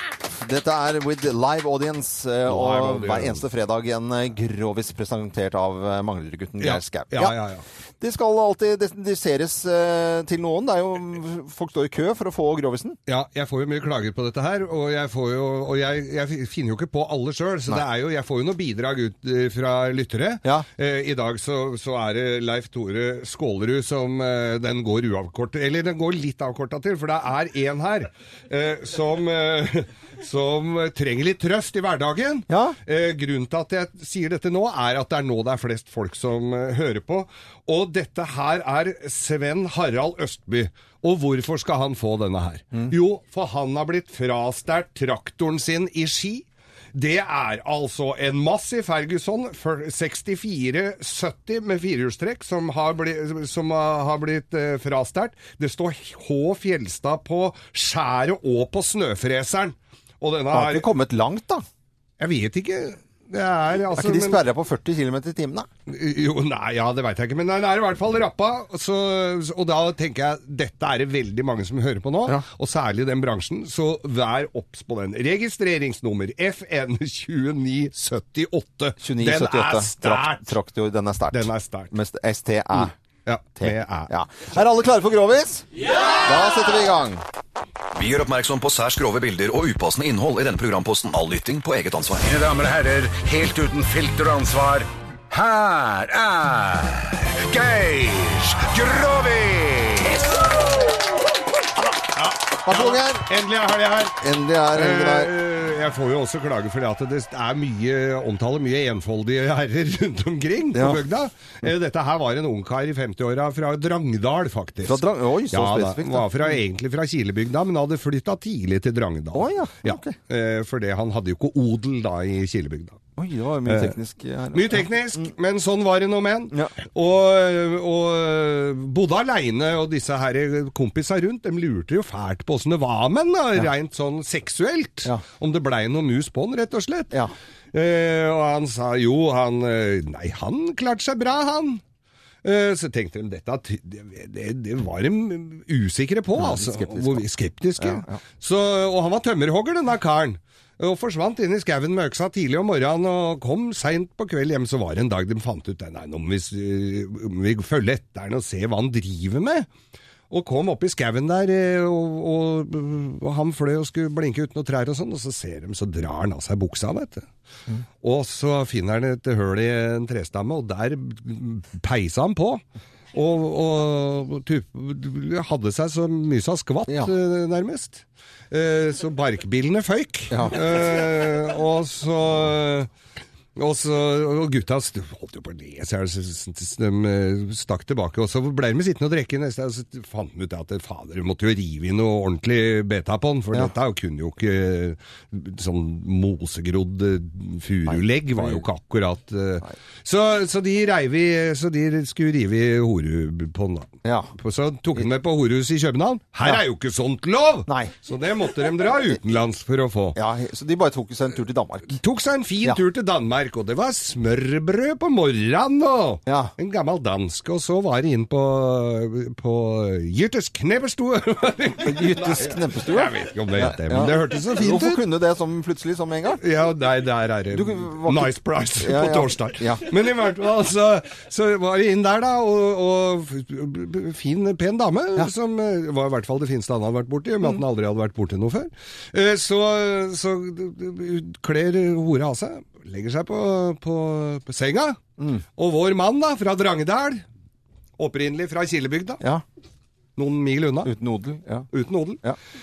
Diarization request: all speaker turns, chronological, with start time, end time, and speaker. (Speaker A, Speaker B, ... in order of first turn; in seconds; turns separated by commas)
Speaker A: 0.3-7.3, Speaker B: 2.4-3.4, Speaker B: 6.6-7.6, Speaker A: 8.0-13.0, Speaker B: 13.1-60.9, Speaker A: 32.5-32.8, Speaker A: 60.5-61.6, Speaker B: 62.2-64.4, Speaker A: 63.9-65.7, Speaker B: 65.9-80.5, Speaker A: 79.0-82.9, Speaker B: 81.3-81.9, Speaker B: 82.7-84.1, Speaker A: 83.6-85.6, Speaker A: 86.2-87.2, Speaker C: 87.9-92.3, Speaker D: 92.2-100.2, Speaker B: 98.8-99.5, Speaker B: 102.0-123.0, Speaker A: 102.7-103.2, Speaker A: 104.2-105.3, Speaker A: 110.7-111.0, Speaker A: 114.8-116.4, Speaker A: 119.3-120.2, Speaker A: 123.2-124.9, Speaker B: 123.6-124.0, Speaker B: 124.5-137.2, Speaker B: 137.7-141.8, Speaker B: 142.4-159.7, Speaker A: 146.3-147.2, Speaker A: 147.8-148.2, Speaker B: 160.3-167.2, Speaker B: 168.0-172.6, Speaker B: 173.1-182.9, Speaker A: 180.3-180.6, Speaker B: 183.6-210.2, Speaker A: 197.9-198.6, Speaker A: 204.0-204.3, Speaker A: 207.7-207.9, Speaker A: 210.1-212.0, Speaker B: 212.0-225.0, Speaker A: 216.3-216.5, Speaker A: 221.8-226.4, Speaker B: 226.4-245.0, Speaker A: 227.5-229.8, Speaker A: 245.2-245.4, Speaker B: 245.6-247.2, Speaker B: 248.0-249.2, Speaker B: 250.2-250.9, Speaker A: 250.8-251.7, Speaker B: 251.7-252.2